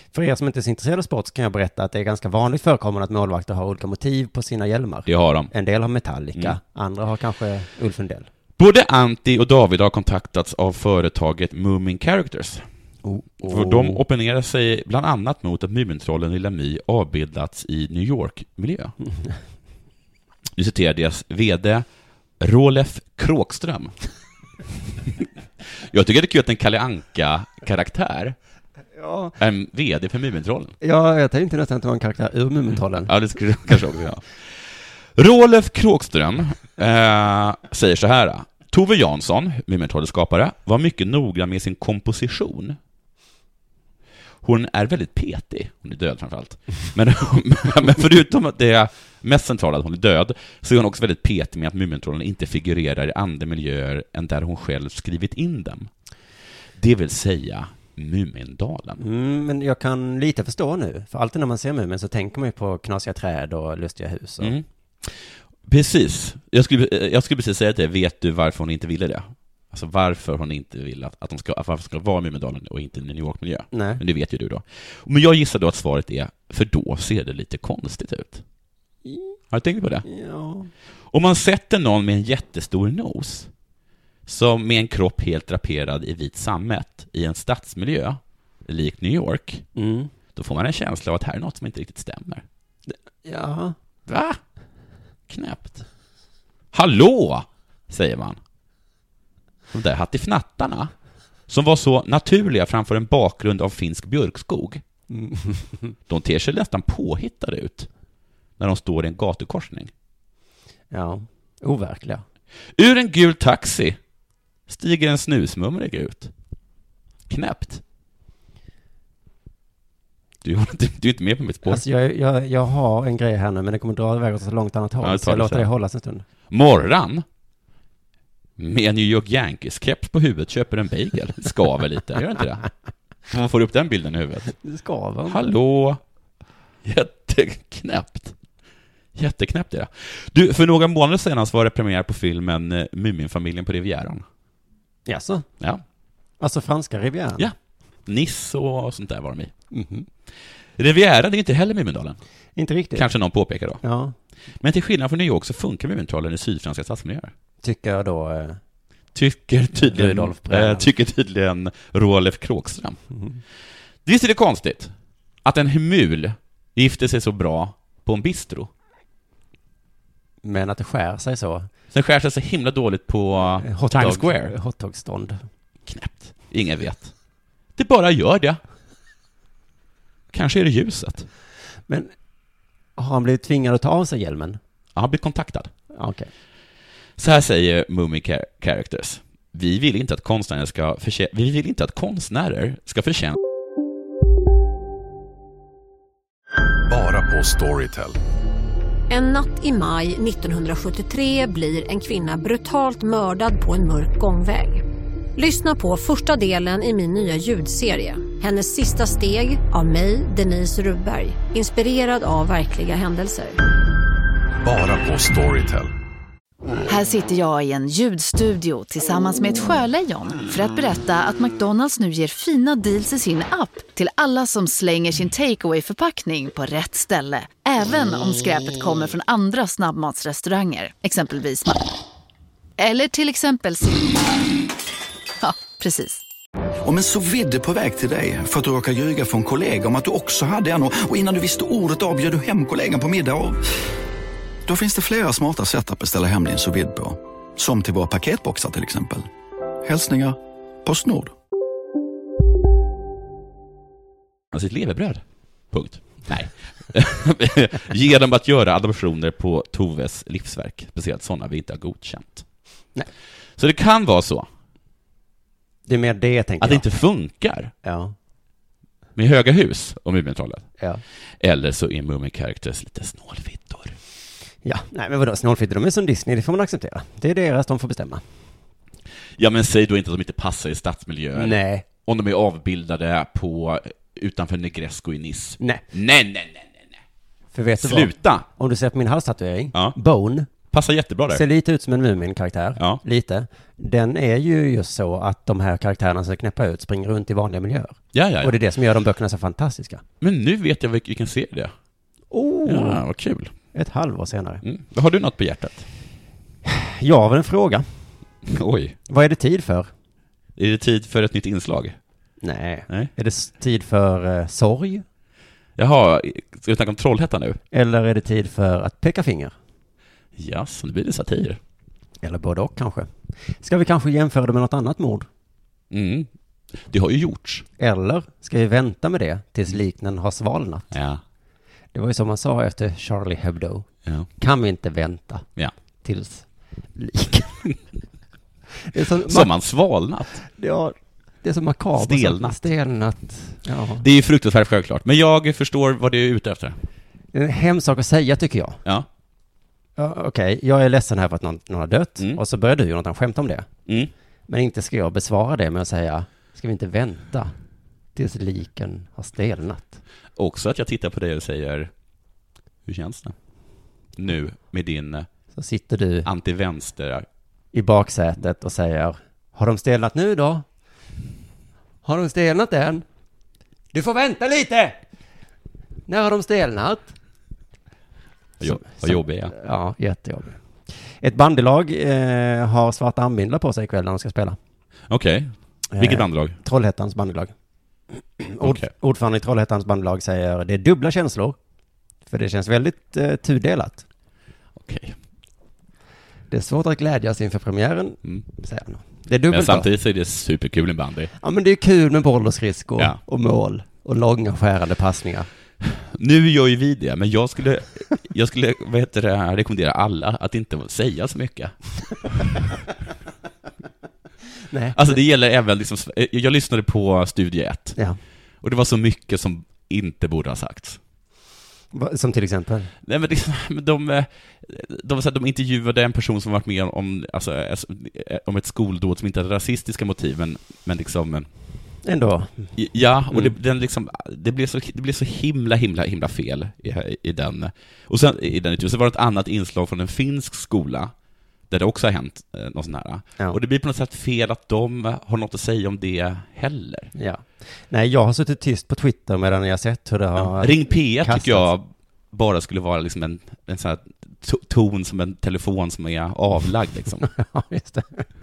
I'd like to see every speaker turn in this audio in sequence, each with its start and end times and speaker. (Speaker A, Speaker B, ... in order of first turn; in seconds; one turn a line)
Speaker A: 0.1-8.3
Speaker B: 5.1-5.5
Speaker B: 8.6-12.6
Speaker A: 13.0-14.0
Speaker B: 13.4-18.9
Speaker B: 20.6-21.9
Speaker B: 22.4-23.9
Speaker B: 25.8-28.4
Speaker A: 28.9-29.4
Speaker B: 29.4-30.7
Speaker A: 30.8-33.1
Speaker B: 33.0-34.2
Speaker B: 35.1-42.8
Speaker B: 44.4-55.9
Speaker B: 56.8-59.0
Speaker A: 59.0-64.5
Speaker B: 64.4-78.4
Speaker A: 73.7-74.0
Speaker A: 79.0-79.4
Speaker B: 79.5-80.0
Speaker A: 80.0-80.7
Speaker B: 81.1-83.5
Speaker B: 84.2-89.7
Speaker A: 89.7-90.1
Speaker B: 90.3-92.4
Speaker A: 92.9-93.7
Speaker B: 94.1-94.4
Speaker B: 95.3-95.8
Speaker B: 96.7-98.4
Speaker B: 99.7-100.9
Speaker B: 101.5-104.8
Speaker A: 105.1-105.9
Speaker B: 106.1-107.9
Speaker B: 108.6-109.9
Speaker A: 110.9-112.2
Speaker B: 112.8-114.0
Speaker B: 114.7-116.3
Speaker B: 117.3-117.8
Speaker B: 120.4-121.8
Speaker A: 121.6-126.2
Speaker B: 125.0-125.7
Speaker B: 126.5-127.2
Speaker B: 128.6-132.7
Speaker B: 133.3-134.5
Speaker A: 134.6-135.5
Speaker B: 135.3-136.0
Speaker B: 136.8-138.3
Speaker B: 139.1-144.2
Speaker A: 145.1-145.5
Speaker A: 146.4-147.5
Speaker B: 148.1-149.5
Speaker A: 149.7-150.1
Speaker B: 150.8-152.2
Speaker A: 152.6-153.1
Speaker B: 152.9-153.8
Speaker A: 153.8-154.1
Speaker B: 154.6-157.3
Speaker A: 157.6-158.6
Speaker B: 159.1-163.0
Speaker A: 159.8-160.9
Speaker B: 164.0-164.9
Speaker B: 165.4-168.7
Speaker A: 170.4-171.7
Speaker B: 171.9-174.5
Speaker A: 173.6-175.4
Speaker B: 175.9-177.1
Speaker B: 177.8-178.6
Speaker B: 180.3-181.3
Speaker A: 183.0-184.6
Speaker B: 184.9-185.7
Speaker A: 185.9-186.3
Speaker B: 187.2-193.4
Speaker C: 196.9-198.2
Speaker D: 199.1-204.8
Speaker D: 205.3-213.6
Speaker C: 214.6-215.9
Speaker E: 216.9-231.8
Speaker E: 232.8-234.2
Speaker E: 235.4-236.2
Speaker F: 236.8-243.6
Speaker F: 244.7-249.3
Speaker F: 249.8-251.3
Speaker B: 254.5-262.4
Speaker B: 263.6-264.5
Speaker A: 265.9-266.8
Speaker B: 266.6-267.7
Speaker A: 267.8-268.1
Speaker B: 269.1-270.6
Speaker B: 271.4-274.0
Speaker A: 274.6-278.2
Speaker B: 279.4-286.9
Speaker A: 281.3-281.9
Speaker A: 287.5-290.5
Speaker B: 287.8-288.4
Speaker B: 290.7-291.4
Speaker A: 291.3-300.0
Speaker B: 298.1-298.6
Speaker B: 300.2-301.7
Speaker A: 302.3-303.0
Speaker B: 302.6-303.5
Speaker A: 303.7-304.6
Speaker B: 304.6-305.9
Speaker A: 306.6-307.8
Speaker B: 308.4-308.9
Speaker A: 309.1-309.9
Speaker B: 310.6-312.0
Speaker A: 312.4-315.0
Speaker B: 315.8-317.6
Speaker A: 317.7-319.5
Speaker B: 320.4-321.6
Speaker A: 322.2-323.1
Speaker A: 323.6-325.3
Speaker B: 325.9-327.6
Speaker A: 327.8-330.9
Speaker B: 330.9-331.2
Speaker A: 331.9-333.9
Speaker A: 334.4-335.4
Speaker A: 336.0-337.7
Speaker A: 338.8-339.5
Speaker B: 339.3-340.4
Speaker A: 340.4-344.0
Speaker B: 342.0-342.6
Speaker B: 344.0-346.8
Speaker A: 347.3-348.8
Speaker A: 350.0-353.7
Speaker A: 354.5-357.5
Speaker A: 358.1-360.0
Speaker B: 360.4-361.9
Speaker B: 362.9-363.3
Speaker B: 364.1-365.3
Speaker A: 365.5-366.3
Speaker B: 366.2-367.3
Speaker A: 367.7-370.6
Speaker A: 372.0-373.0
Speaker A: 373.9-375.0
Speaker A: 376.1-377.1
Speaker B: 378.6-379.5
Speaker A: 378.6-380.6
Speaker A: 381.2-384.6
Speaker B: 385.1-386.6
Speaker A: 385.9-387.5
Speaker A: 388.4-391.6
Speaker B: 388.6-388.9
Speaker A: 392.3-394.0
Speaker B: 394.8-395.1
Speaker A: 396.5-399.9
Speaker B: 399.5-401.3
Speaker A: 401.4-405.5
Speaker B: 405.8-411.8
Speaker A: 414.7-415.1
Speaker B: 414.9-418.0
Speaker B: 418.6-421.0
Speaker A: 421.9-422.9
Speaker B: 423.0-431.5
Speaker A: 432.0-432.7
Speaker B: 432.8-441.1
Speaker B: 441.7-447.1
Speaker A: 447.1-451.7
Speaker B: 450.4-457.3
Speaker A: 457.3-458.3